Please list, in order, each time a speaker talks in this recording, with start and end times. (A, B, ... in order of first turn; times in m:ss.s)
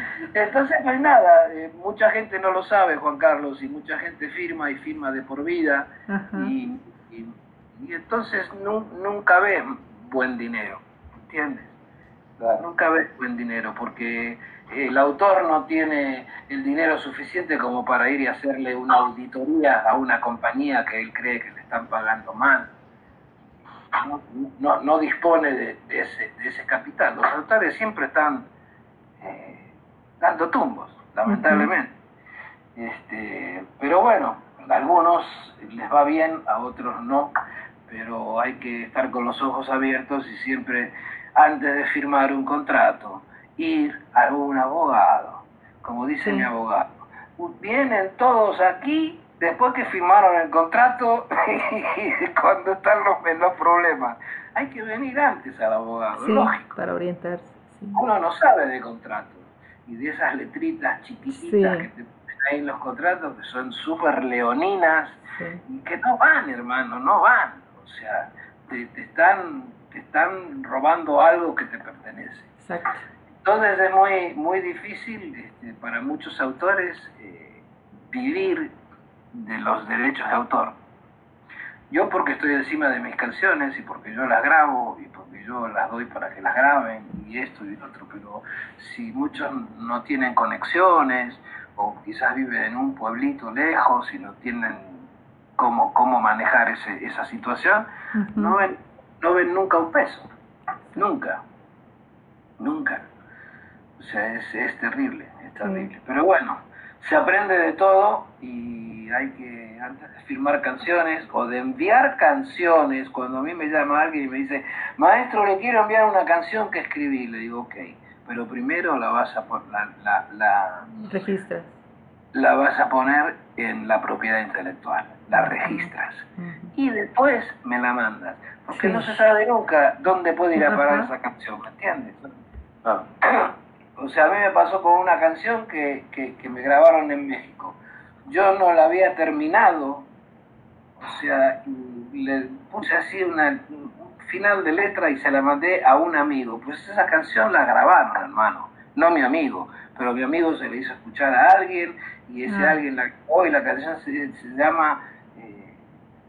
0:00.3-0:11.7 A
0:06.1-0:06.5 B
0:12.4-0:22.7 A
0:23.9-0:28.5 A
0:29.2-0:29.7 A
0:30.2-0:31.9 A
0:31.3-0:31.7 B
0:32.8-0:37.3 A
0:37.9-0:56.7 A
0:56.1-0:58.0 B
0:57.9-1:12.5 A
1:01.3-1:01.9 B
1:05.3-1:05.6 B
1:12.6-1:13.0 B
1:13.4-1:18.7 A
1:19.3-1:20.8 A
1:21.9-1:40.3 A
1:38.1-1:38.6 B
1:40.9-1:41.4 A
1:42.6-1:43.1 A
1:44.0-2:01.2 A
1:45.6-1:45.9 B
2:01.1-2:01.7 B
2:02.3-2:12.3 A
2:05.3-2:06.7 B
2:08.7-2:09.2 B
2:10.6-2:11.1 B
2:13.2-2:20.1 A
2:21.0-2:35.8 A
2:32.5-2:32.8 B